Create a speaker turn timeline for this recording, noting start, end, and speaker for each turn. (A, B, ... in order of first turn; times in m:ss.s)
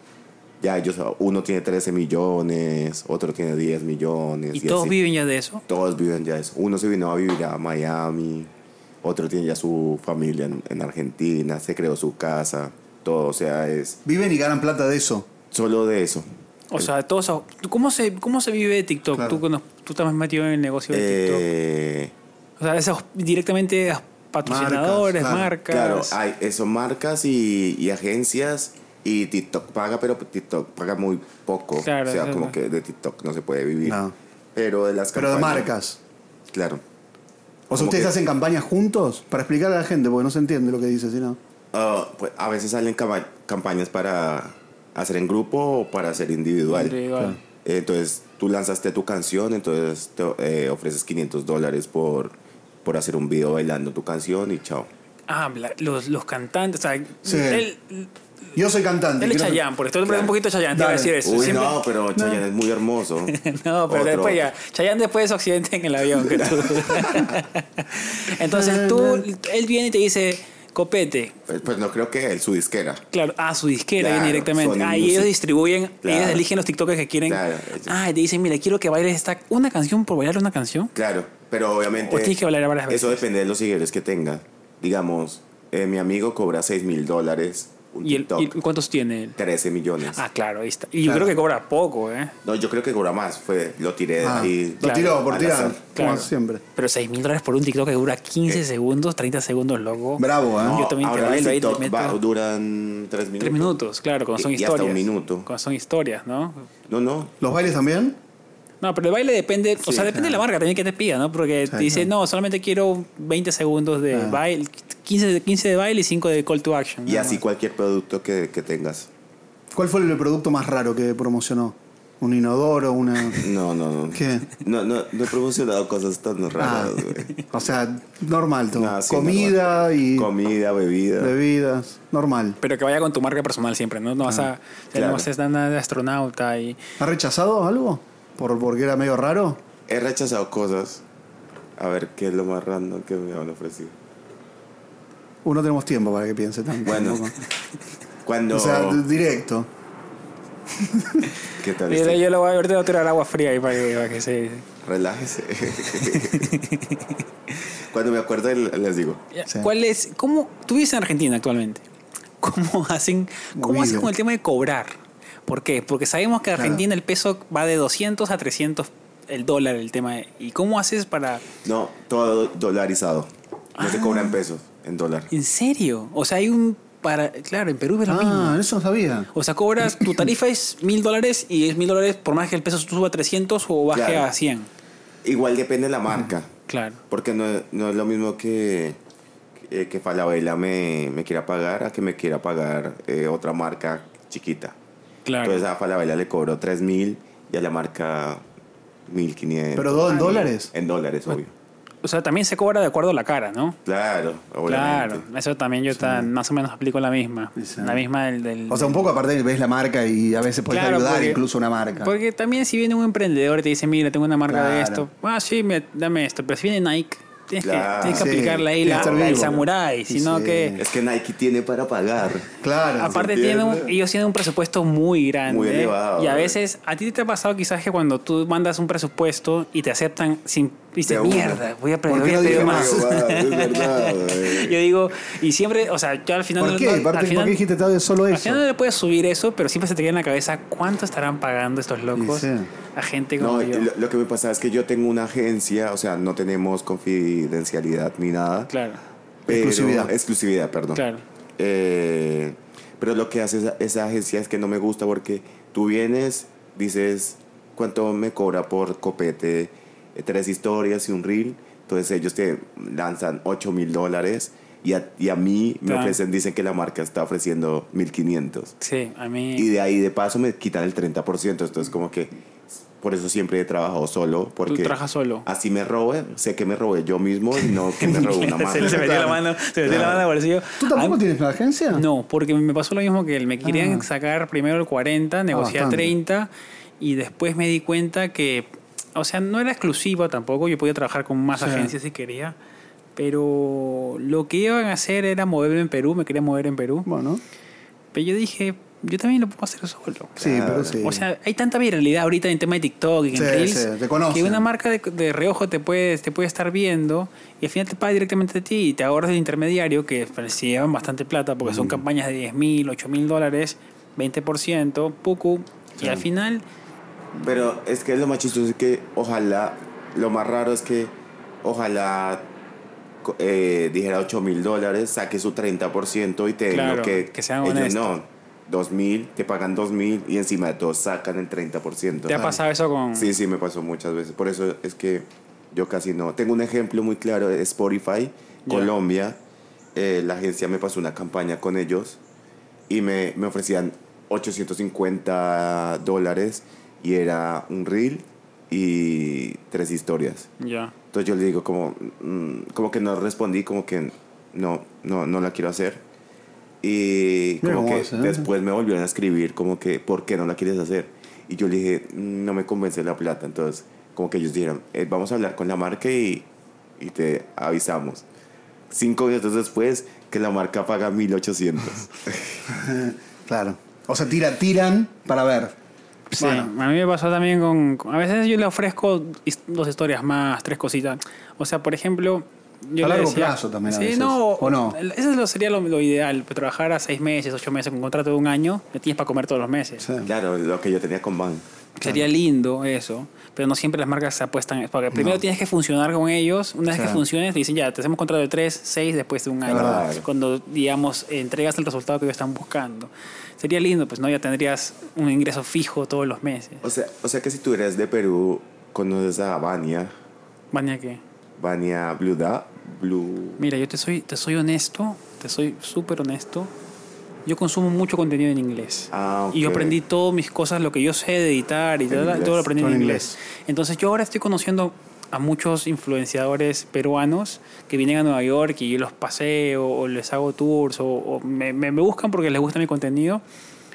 0:00.6-0:05.0 A
0:04.5-0:05.6 B
0:05.7-0:08.5 A
0:09.0-0:14.0 A
0:14.0-0:15.3 C
0:15.5-0:16.9 A
0:16.7-0:21.4 B
0:19.1-0:19.4 C
0:20.9-0:22.1 A
0:22.6-0:26.2 B
0:24.5-0:25.5 C
0:25.7-0:34.0 A
0:31.8-0:32.5 B
0:33.9-0:34.1 C
0:34.6-0:35.7 A
0:35.2-0:36.0 C
0:36.5-0:36.8 A
0:37.7-0:41.4 C
0:37.7-0:38.1 A
0:41.7-0:47.0 A
0:46.7-0:47.4 B
0:47.6-0:54.9 A
0:55.3-0:58.1 B
0:57.2-0:57.7 C
0:58.6-0:59.6 C
0:59.2-1:01.8 B
1:00.1-1:00.3 A
1:00.7-1:01.6 C
1:01.2-1:03.4 A
1:02.2-1:02.4 C
1:03.3-1:11.4 B
1:03.9-1:04.4 A
1:06.2-1:07.4 A
1:08.5-1:09.2 C
1:11.5-1:13.0 A
1:13.1-1:20.9 B
1:14.0-1:15.3 A
1:16.0-1:16.4 A
1:17.3-1:18.0 A
1:21.0-1:22.4 A
1:22.0-1:23.2 B
1:22.9-1:28.6 A
1:28.0-1:29.4 B
1:29.4-1:30.2 A
1:30.1-1:32.3 B
1:31.0-1:31.4 C
1:32.4-1:36.2 A
1:34.2-1:36.6 C
1:34.8-1:35.2 B
1:36.0-1:42.2 B
1:40.2-1:40.8 C
1:40.6-1:43.8 A
1:43.4-1:46.7 B
1:44.4-1:45.5 A
1:46.9-1:47.3 A
1:47.4-1:48.2 C
1:48.8-1:57.4 B
1:50.1-1:50.4 C
1:51.7-1:52.1 C
1:54.1-1:54.4 C
1:57.1-1:59.1 A
1:59.7-2:03.4 C
2:03.4-2:07.3 A
2:04.1-2:04.5 C
2:06.6-2:10.3 C
2:08.8-2:11.4 A
2:11.2-2:12.6 C
2:12.6-2:16.8 B
2:14.9-2:15.3 A
2:17.0-2:19.6 C
2:19.9-2:21.0 A
2:21.8-2:24.0 A
2:25.4-2:27.4 C
2:26.8-2:27.3 A
2:28.2-2:29.1 A
2:28.5-2:29.7 C
2:30.8-2:31.3 C
2:31.6-2:32.2 A
2:31.9-2:34.6 B
2:34.8-2:36.5 A
2:35.9-2:37.1 B
2:37.9-2:39.2 A
2:39.3-2:41.8 B
2:42.4-2:51.4 B
2:43.6-2:44.1 C
2:46.5-2:46.8 C
2:51.6-2:55.3 A
2:53.8-2:54.4 B
2:55.3-2:58.6 B
2:58.1-2:59.3 C
2:59.3-3:04.7 B
2:59.9-3:00.2 C
3:03.9-3:04.3 A
3:05.2-3:06.5 A
3:06.7-3:07.0 B
3:07.1-3:09.0 A
3:09.7-3:14.8 A
3:15.2-3:15.6 B
3:15.4-3:18.4 A
3:19.1-3:21.5 A
3:19.8-3:20.7 C
3:20.1-3:20.5 B
3:22.0-3:23.8 B
3:23.8-3:25.3 A
3:24.7-3:29.1 B
3:26.0-3:26.3 C
3:27.6-3:28.0 C
3:28.7-3:32.1 C
3:30.7-3:31.4 B
3:32.0-3:40.8 B
3:34.5-3:35.1 C
3:37.6-3:39.6 A
3:38.1-3:40.8 C
3:40.8-3:42.5 A
3:42.6-3:43.2 C
3:43.0-3:57.6 B
3:43.1-3:43.9 A
3:45.5-3:46.6 A
3:51.1-3:51.6 A
3:52.1-3:53.2 C
3:52.3-3:54.8 A
3:56.6-3:58.6 C
3:58.3-4:03.9 B
4:02.2-4:02.7 C
4:03.4-4:08.7 A
4:08.7-4:09.0 B
4:09.5-4:10.1 C
4:09.5-4:11.0 A
4:10.9-4:11.2 B
4:11.6-4:28.7 A
4:25.8-4:26.2 B
4:28.8-4:29.7 B
4:29.6-4:32.3 A
4:33.0-4:39.1 A
4:34.7-4:35.5 B
4:37.6-4:41.2 B
4:38.8-4:40.2 C
4:39.9-4:40.2 A
4:40.8-4:42.0 C
4:41.9-4:52.6 B
4:43.6-4:44.1 C
4:45.5-4:46.1 C
4:51.6-4:51.9 C
4:53.2-4:57.1 B
4:57.1-4:57.4 C
4:58.1-5:16.6 B
5:00.4-5:01.2 C
5:00.4-5:01.0 A
5:03.3-5:04.6 C
5:11.6-5:12.0 C
5:16.0-5:16.2 C
5:17.4-5:22.5 A
5:23.2-5:32.4 A
5:26.7-5:28.1 B
5:32.3-5:33.4 B
5:32.3-5:32.6 C
5:33.2-5:39.4 A
5:40.0-5:42.2 A
5:42.9-5:50.5 A
5:50.6-5:50.9 B
5:51.1-5:56.0 A
5:56.8-6:06.5 A
5:57.6-5:58.5 C
6:07.0-6:08.2 A
6:08.9-6:12.7 A
6:12.7-6:15.8 C
6:16.3-6:30.1 B
6:16.4-6:16.7 C
6:23.0-6:25.0 C
6:30.0-6:30.3 C
6:30.2-6:31.6 A
6:32.0-6:46.8 B
6:35.1-6:35.4 C
6:36.9-6:37.2 C
6:39.7-6:40.3 A
6:39.7-6:40.1 C
6:46.8-6:50.1 A
6:50.7-6:51.2 B
6:51.6-6:53.6 A
6:53.6-6:56.7 B
6:57.5-7:13.4 B
6:59.1-7:00.0 A
7:02.1-7:02.7 A
7:02.8-7:03.4 C